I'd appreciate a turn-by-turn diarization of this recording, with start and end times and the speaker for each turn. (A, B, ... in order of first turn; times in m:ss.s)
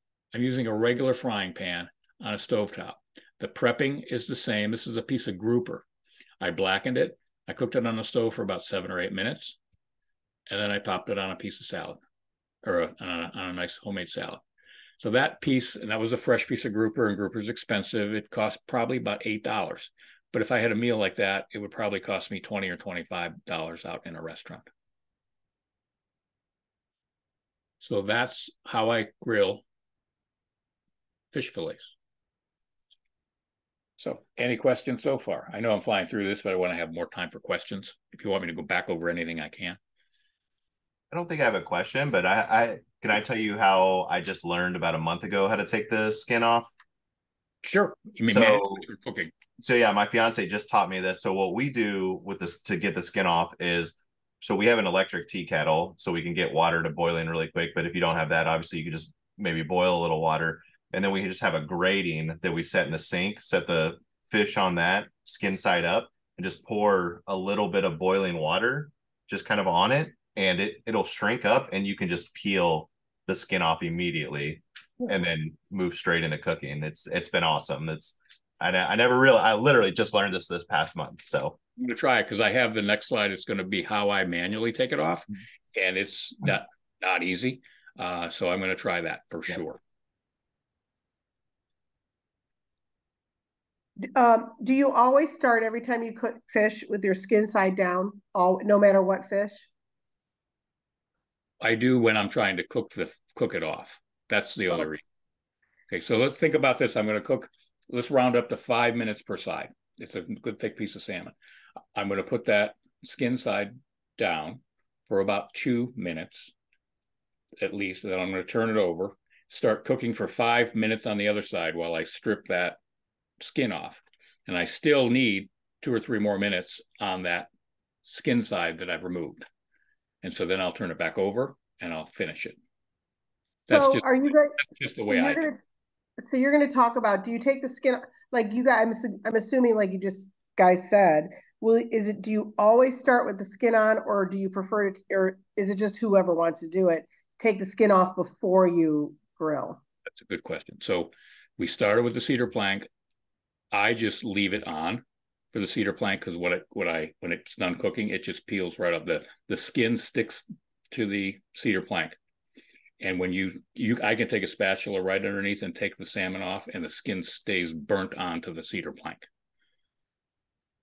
0:00.3-0:05.8 A
0:06.4-0:09.6 A
0:10.5-0:12.0 A
0:12.6-0:14.4 A
0:15.0-0:24.6 A
0:27.8-0:29.6 A
0:31.3-0:31.9 A
0:34.0-0:39.8 A
0:41.1-0:46.7 B
0:47.6-0:49.3 A
0:48.2-0:48.8 B
0:49.6-1:21.6 B
1:21.8-1:29.8 A
1:34.2-1:39.7 C
1:41.6-1:45.0 A
1:45.9-1:51.3 A
1:52.0-1:56.5 A
1:57.6-2:02.8 A
2:03.4-2:07.5 A
2:08.0-2:09.5 A
2:10.2-2:12.6 A
2:13.7-2:15.5 A
2:13.7-2:14.6 C
2:15.1-2:15.6 C
2:16.2-2:29.8 C
2:30.1-2:32.9 A
2:33.7-2:42.2 A
2:43.0-2:49.3 A